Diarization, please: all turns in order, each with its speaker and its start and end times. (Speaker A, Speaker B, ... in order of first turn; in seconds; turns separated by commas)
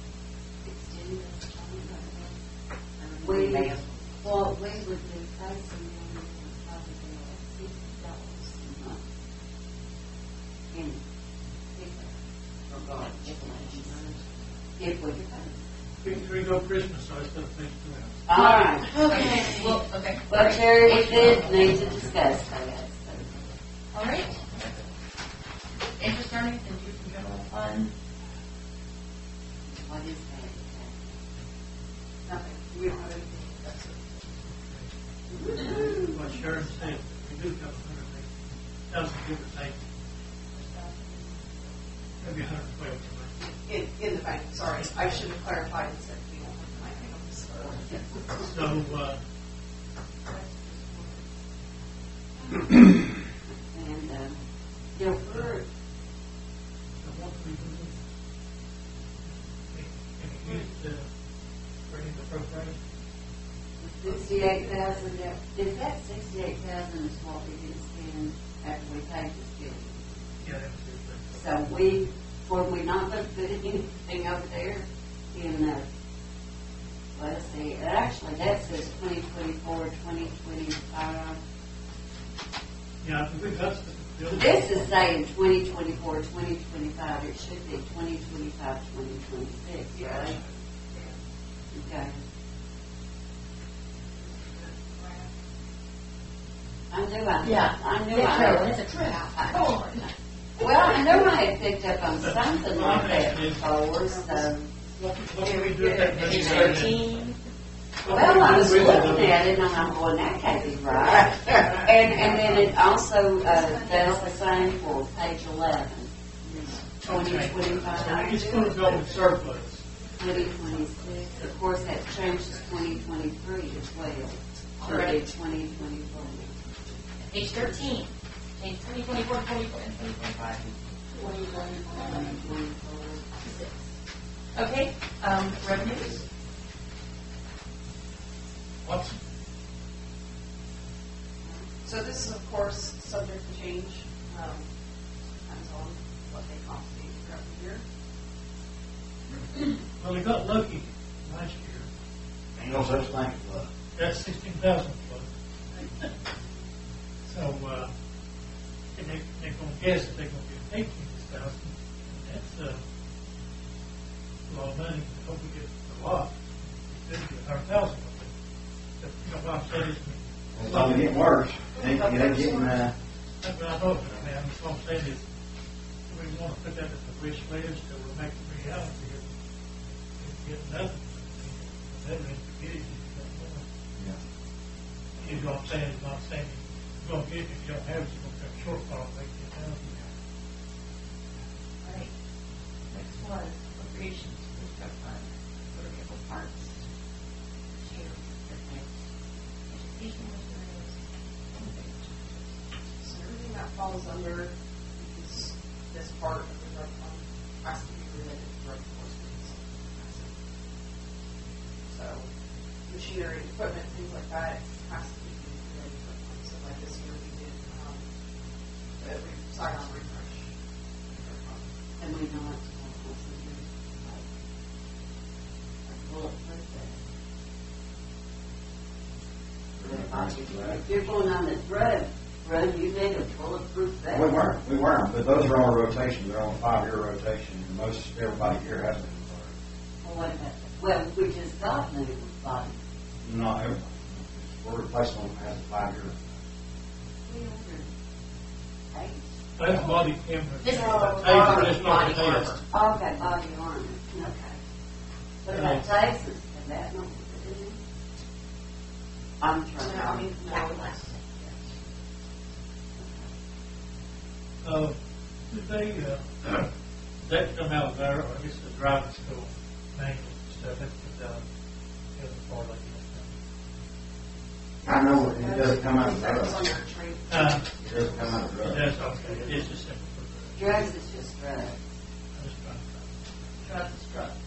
Speaker A: 0.6-2.3, Speaker B: 3.0-3.8, Speaker A: 3.2-9.0, Speaker A: 10.7-11.0, Speaker A: 11.7-12.1, Speaker A: 12.7-14.1, Speaker B: 13.6-14.2, Speaker A: 14.8-15.6, Speaker C: 16.0-18.2, Speaker A: 18.3-23.4, Speaker B: 18.3-21.9, Speaker B: 23.9-24.8, Speaker B: 26.0-27.9, Speaker A: 29.7-31.1, Speaker D: 32.2-34.5, Speaker A: 35.3-36.1, Speaker C: 35.9-38.3, Speaker C: 38.9-39.8, Speaker D: 40.6-41.4, Speaker C: 42.2-43.5, Speaker D: 43.6-48.5, Speaker C: 48.4-49.2, Speaker B: 50.3-51.2, Speaker A: 52.5-52.9, Speaker A: 53.7-54.4, Speaker A: 55.0-55.6, Speaker C: 57.0-58.0, Speaker C: 59.7-61.0, Speaker C: 61.9-62.8, Speaker A: 63.8-70.1, Speaker D: 64.1-65.1, Speaker C: 70.4-71.4, Speaker A: 71.3-75.8, Speaker A: 77.2-81.4, Speaker C: 83.0-84.9, Speaker A: 84.3-90.4, Speaker D: 89.9-91.2, Speaker A: 91.7-92.2, Speaker D: 94.4-95.2, Speaker A: 96.9-98.8, Speaker B: 97.4-100.1, Speaker A: 99.3-99.7, Speaker A: 100.6-104.8, Speaker C: 102.2-103.8, Speaker C: 104.9-107.1, Speaker B: 106.0-107.4, Speaker C: 108.0-109.9, Speaker A: 108.0-116.1, Speaker B: 113.4-114.8, Speaker C: 117.0-119.8, Speaker A: 117.0-118.4, Speaker D: 118.1-119.0, Speaker A: 120.2-126.6, Speaker B: 124.8-125.2, Speaker B: 127.3-132.4, Speaker A: 131.9-133.2, Speaker B: 133.4-133.7, Speaker B: 134.6-136.2, Speaker C: 138.8-139.2, Speaker D: 141.8-144.7, Speaker D: 145.4-147.8, Speaker C: 150.0-151.9, Speaker E: 152.6-153.7, Speaker C: 153.9-156.1, Speaker C: 157.2-157.9, Speaker C: 158.9-162.8, Speaker C: 164.5-166.3, Speaker C: 166.9-168.3, Speaker C: 169.0-171.2, Speaker E: 170.6-172.9, Speaker D: 171.7-172.9, Speaker C: 173.4-175.2, Speaker C: 176.1-179.2, Speaker C: 180.2-183.6, Speaker C: 185.2-190.1, Speaker B: 191.8-192.1, Speaker B: 192.9-196.8, Speaker B: 197.8-198.9, Speaker B: 199.7-201.0, Speaker B: 201.5-202.5, Speaker D: 203.0-210.3, Speaker D: 211.9-212.3, Speaker D: 212.9-218.0, Speaker D: 219.0-220.5, Speaker D: 221.1-221.7, Speaker A: 222.0-224.3, Speaker A: 225.9-227.0, Speaker E: 229.8-230.9, Speaker A: 229.8-234.4, Speaker E: 234.1-239.5, Speaker A: 240.0-242.8, Speaker E: 243.2-246.3, Speaker A: 247.2-247.9, Speaker A: 248.9-249.2, Speaker C: 249.6-252.6, Speaker B: 250.6-252.6, Speaker A: 252.7-254.6, Speaker A: 255.4-257.8, Speaker C: 255.5-255.9, Speaker A: 259.4-260.4, Speaker D: 259.8-261.6, Speaker B: 260.5-261.2, Speaker A: 263.0-263.3, Speaker C: 264.6-265.0, Speaker C: 265.5-266.7, Speaker C: 267.2-271.4, Speaker C: 272.1-273.3, Speaker E: 274.8-276.7, Speaker D: 274.8-278.6, Speaker C: 277.3-277.7, Speaker E: 277.8-278.9, Speaker C: 278.6-281.0, Speaker A: 280.6-281.8, Speaker C: 282.4-283.1, Speaker B: 283.6-284.3